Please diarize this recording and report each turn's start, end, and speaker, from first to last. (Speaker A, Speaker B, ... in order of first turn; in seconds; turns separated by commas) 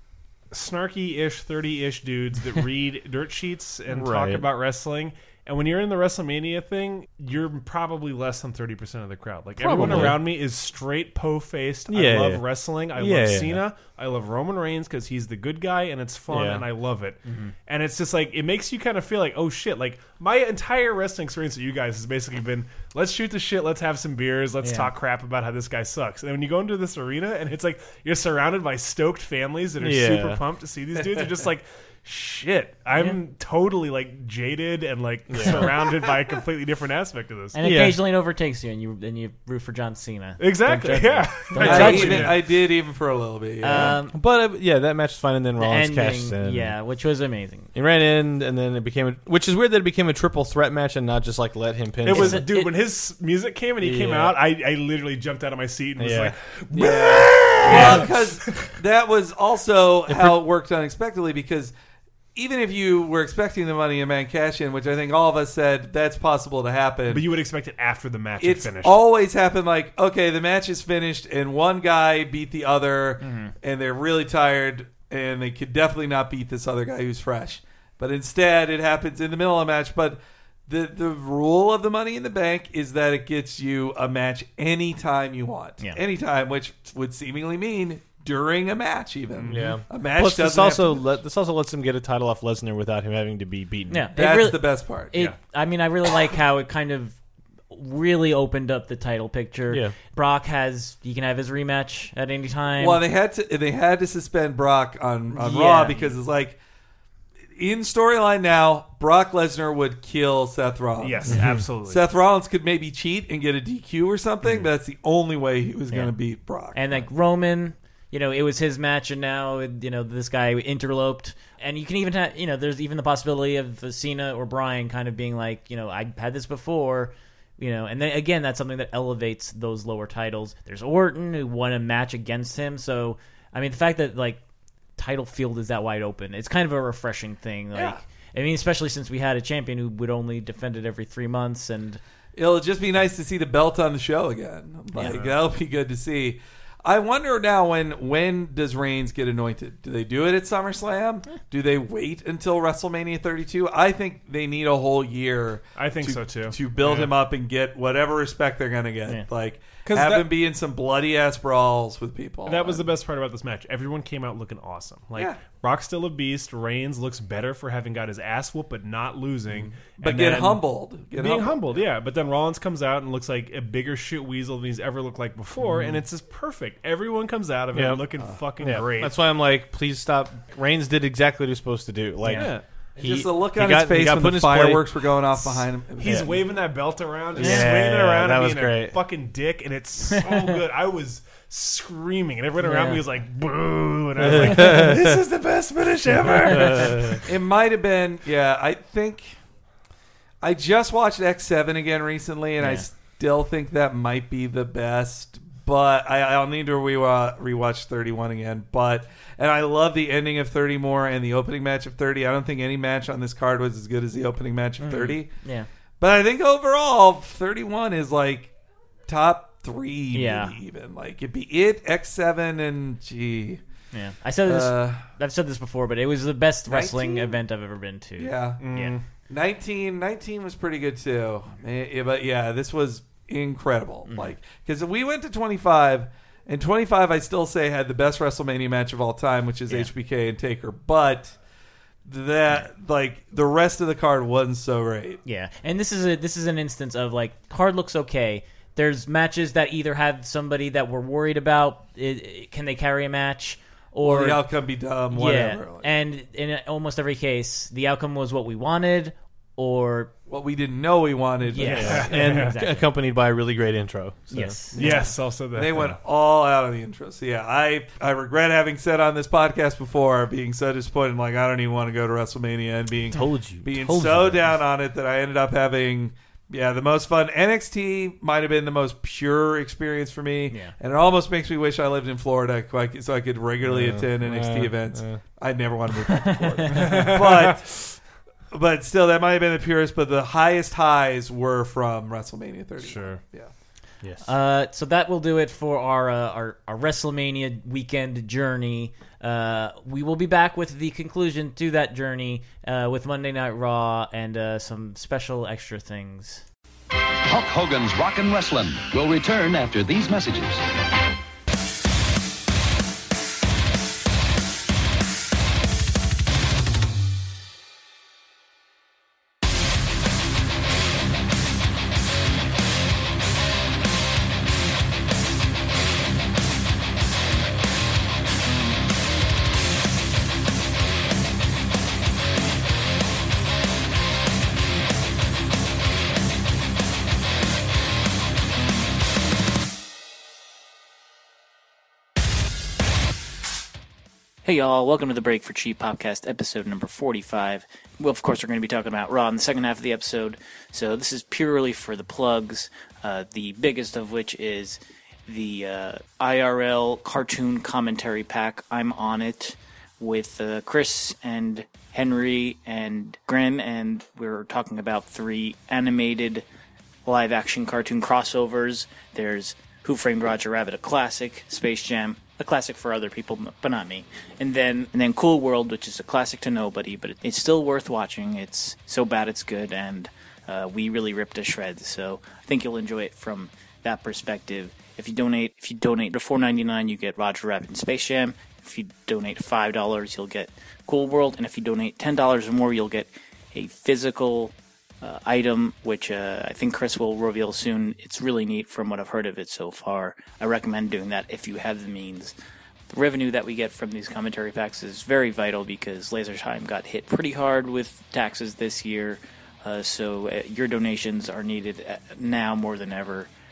Speaker A: 0.5-37.6, Speaker B: 3.9-4.5, Speaker B: 9.6-10.2, Speaker C: 9.8-10.1, Speaker B: 11.9-13.6, Speaker B: 16.3-16.6, Speaker C: 17.3-17.5, Speaker C: 24.6-24.9, Speaker B: 29.8-30.4, Speaker D: 31.0-31.3, Speaker B: 35.3-35.7, Speaker C: 37.5-42.3, Speaker B: 37.6-38.0, Speaker A: 40.4-42.4, Speaker D: 41.6-44.0, Speaker C: 43.6-44.2, Speaker B: 44.1-46.8, Speaker C: 45.6-47.7, Speaker B: 47.7-52.4, Speaker A: 52.0-58.7, Speaker C: 52.1-52.7, Speaker B: 53.8-54.4, Speaker B: 56.0-56.4, Speaker D: 56.7-61.7, Speaker B: 57.6-58.0, Speaker D: 62.4-67.3, Speaker A: 67.1-69.0, Speaker D: 68.4-91.2, Speaker C: 73.2-73.5, Speaker A: 89.3-89.8, Speaker B: 89.5-94.1, Speaker C: 93.9-97.2, Speaker D: 94.2-95.1, Speaker C: 97.7-103.0, Speaker D: 102.8-106.6, Speaker C: 105.3-106.1, Speaker D: 107.5-117.1, Speaker A: 111.0-112.0, Speaker C: 115.9-116.1, Speaker C: 116.7-134.4, Speaker C: 135.0-142.0, Speaker D: 137.7-138.0, Speaker D: 142.4-162.9, Speaker A: 145.0-145.4, Speaker A: 155.8-157.1, Speaker A: 159.8-160.3, Speaker A: 162.5-179.2, Speaker D: 169.5-171.8, Speaker B: 175.6-176.0, Speaker B: 177.7-178.1, Speaker B: 178.6-184.8, Speaker C: 182.2-182.5, Speaker A: 182.3-182.6, Speaker D: 183.0-186.5, Speaker A: 186.0-197.2, Speaker B: 186.0-186.4, Speaker B: 187.4-189.0, Speaker C: 187.4-187.7, Speaker C: 192.6-193.0, Speaker B: 194.2-195.1, Speaker B: 196.4-197.2, Speaker D: 197.2-199.4, Speaker D: 200.4-215.3, Speaker C: 202.6-202.8, Speaker C: 214.8-215.7, Speaker D: 216.0-218.5, Speaker D: 219.1-223.6, Speaker C: 220.1-220.6, Speaker C: 223.9-228.9, Speaker D: 224.4-225.1, Speaker D: 226.7-227.4, Speaker D: 228.2-241.4, Speaker A: 228.6-229.1, Speaker C: 234.1-234.3, Speaker D: 242.1-245.2, Speaker C: 245.2-254.4, Speaker D: 254.0-255.9, Speaker C: 255.1-260.1, Speaker D: 260.3-262.1, Speaker C: 261.5-262.9, Speaker B: 261.6-265.1, Speaker A: 261.8-262.6, Speaker C: 264.3-265.1, Speaker A: 264.8-266.0, Speaker D: 264.8-293.5, Speaker B: 273.1-274.6, Speaker B: 283.6-285.2, Speaker A: 286.8-287.6, Speaker A: 292.8-293.2, Speaker B: 294.0-294.3, Speaker C: 294.2-306.5, Speaker E: 307.2-310.6, Speaker C: 344.4-366.4, Speaker C: 367.1-402.3, Speaker C: 402.9-413.3